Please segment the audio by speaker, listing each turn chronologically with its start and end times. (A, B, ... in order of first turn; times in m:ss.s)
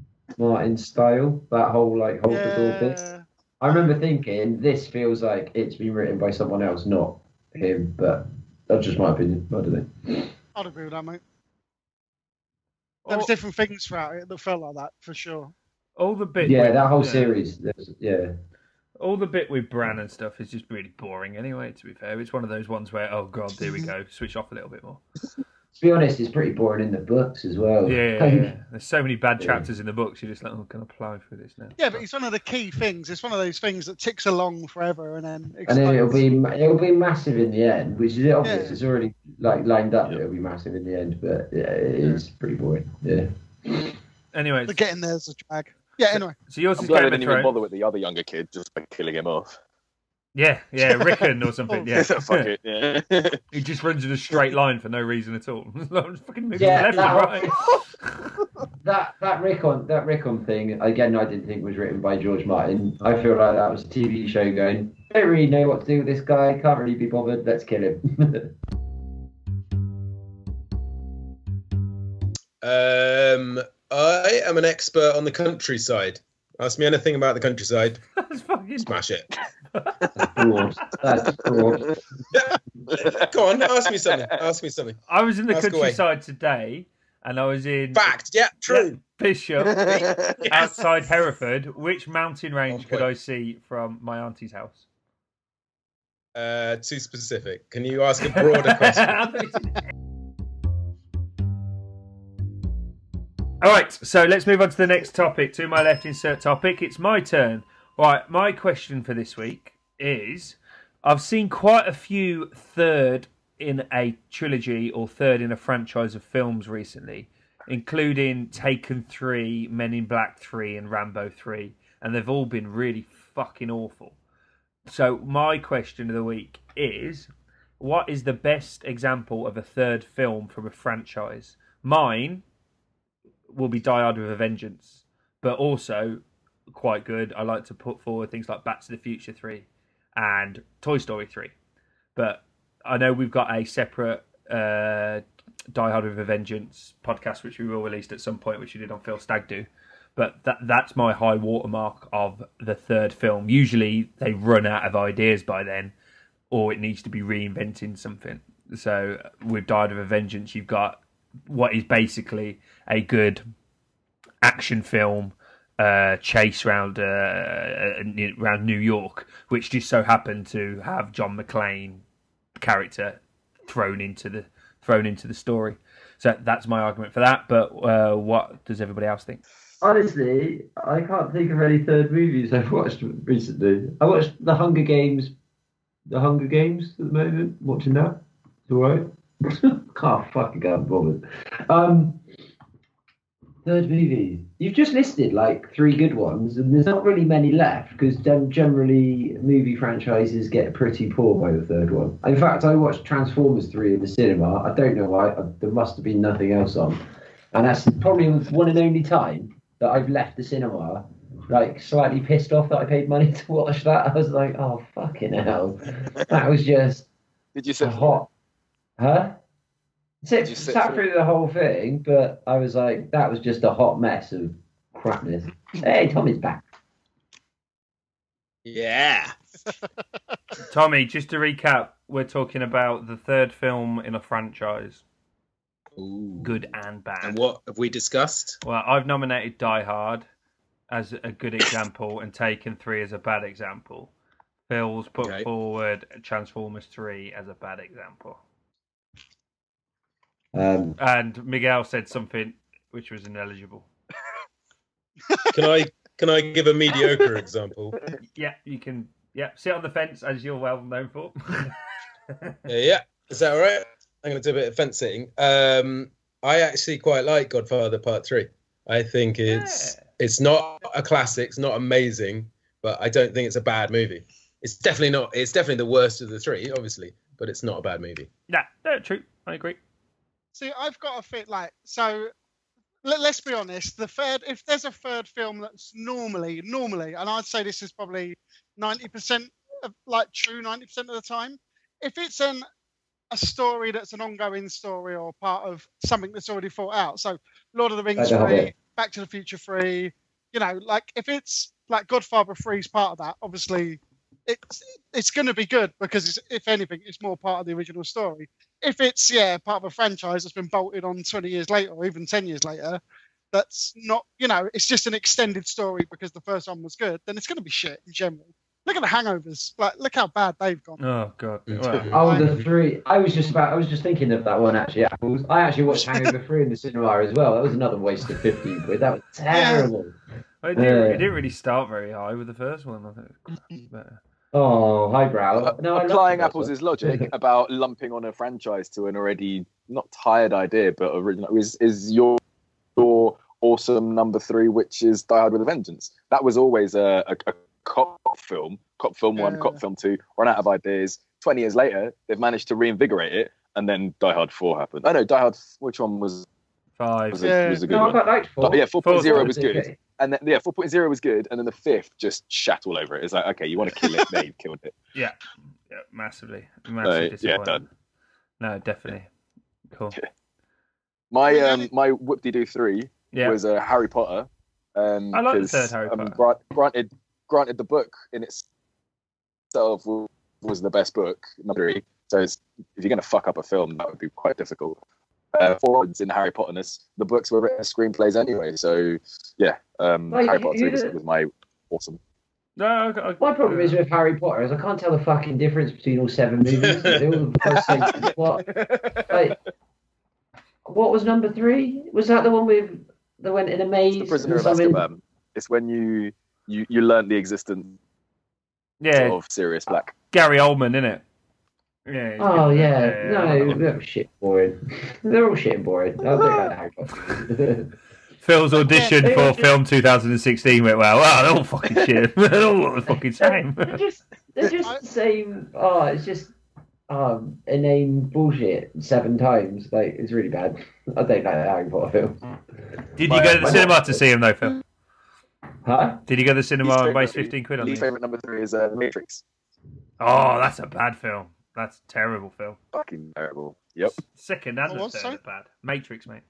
0:00.4-0:03.0 A
0:02.3-0:03.9 B
0:03.6-0:10.3 A
0:10.5-0:11.2 B
0:13.0-0:13.3 C
0:13.1-0:15.5 B
0:16.0-0:17.4 C
0:16.4-0:18.3 A
0:19.0-0:25.0 C
0:25.7-0:28.5 A
0:27.8-0:32.0 C
0:29.4-0:29.6 A
0:31.8-0:36.2 B
0:35.6-0:43.9 A
0:38.4-0:38.8 B
0:44.3-0:44.8 C
0:44.7-0:46.4 B
0:46.4-0:47.5 C
0:46.8-0:49.6 D
0:50.3-0:52.5 C
0:51.9-0:53.4 D
0:53.5-0:58.3 C
0:56.5-0:57.7 A
0:58.8-1:08.5 A
1:12.6-1:18.0 E
1:18.2-1:19.0 C
1:18.8-1:19.3 E
1:19.7-1:20.0 C
1:20.2-1:21.9 A
1:21.4-1:21.9 D
1:22.3-1:26.0 E
1:22.9-1:23.3 D
1:24.1-1:24.4 D
1:25.1-1:28.1 C
1:27.9-1:29.0 E
1:28.7-1:29.9 C
1:29.7-1:30.5 D
1:29.8-1:30.8 E
1:30.5-1:34.8 C
1:32.7-1:33.1 E
1:36.3-1:39.3 E
1:38.3-1:39.8 C
1:43.6-2:04.2 C
2:04.9-2:12.4 C
2:13.5-2:16.2 C
2:16.7-2:21.5 C
2:22.1-2:35.9 C
2:36.5-2:43.4 C
2:44.4-2:52.0 C
2:52.6-2:59.4 C
2:59.8-3:05.3 A
3:06.1-3:12.2 A
3:13.6-3:37.1 A
3:37.5-3:38.2 D
3:37.8-3:38.3 A
3:39.0-3:39.4 A
3:40.2-3:46.6 A
3:40.4-3:41.0 D
3:48.6-3:49.3 E
3:50.7-3:55.0 C
3:56.0-3:56.6 E
3:56.4-3:57.4 C
3:57.2-3:58.6 E
3:58.6-4:00.3 C
4:00.9-4:04.1 C
4:04.7-4:08.4 C
4:05.2-4:05.5 E
4:10.5-4:11.0 A
4:11.0-4:13.9 C
4:15.5-4:18.0 E
4:18.3-4:21.7 C
4:22.3-4:22.6 C
4:22.7-4:38.3 E
4:29.5-4:30.0 C
4:38.5-4:39.8 C
4:40.5-4:42.3 B
4:43.0-4:52.6 B
4:53.3-5:13.0 B
4:58.2-4:58.7 A
5:13.5-5:21.0 B
5:21.0-5:22.2 C
5:21.7-5:22.6 E
5:22.1-5:30.1 A
5:22.2-5:22.5 B
5:29.5-5:29.9 B
5:30.6-5:34.2 C
5:30.7-5:31.2 A
5:34.5-5:37.3 A
5:35.6-5:42.4 D
5:43.0-5:56.4 D
5:49.4-5:49.8 B
5:57.0-5:57.5 C
5:57.3-6:05.0 D
5:57.4-5:57.8 B
5:57.9-6:00.0 A
5:59.0-5:59.5 C
6:05.9-6:07.8 C
6:07.0-6:07.8 D
6:08.6-6:09.3 C
6:09.9-6:10.2 C
6:11.3-6:18.6 D
6:11.4-6:11.9 B
6:13.3-6:13.6 C
6:15.3-6:16.4 C
6:19.7-6:25.0 D
6:25.5-6:32.2 D
6:30.3-6:31.1 A
6:32.8-6:34.0 C
6:33.4-6:38.7 A
6:36.8-6:37.3 E
6:38.1-6:38.3 D
6:39.2-6:39.6 A
6:40.8-6:45.0 A
6:44.1-6:48.0 D
6:49.0-6:49.4 C
6:49.1-6:50.1 D
6:50.3-6:51.2 C
6:52.1-6:53.8 C
6:52.4-6:57.9 A
6:58.4-7:04.0 C
6:58.8-6:59.7 B
6:59.2-6:59.6 A
7:03.4-7:06.5 A
7:07.1-7:12.4 A
7:13.2-7:14.8 C
7:13.3-7:13.9 D
7:13.6-7:13.9 A
7:15.8-7:16.2 A
7:16.2-7:18.1 C
7:16.8-7:19.4 D
7:20.2-7:22.8 C
7:22.9-7:24.2 D
7:24.3-7:26.4 C
7:24.9-7:25.4 B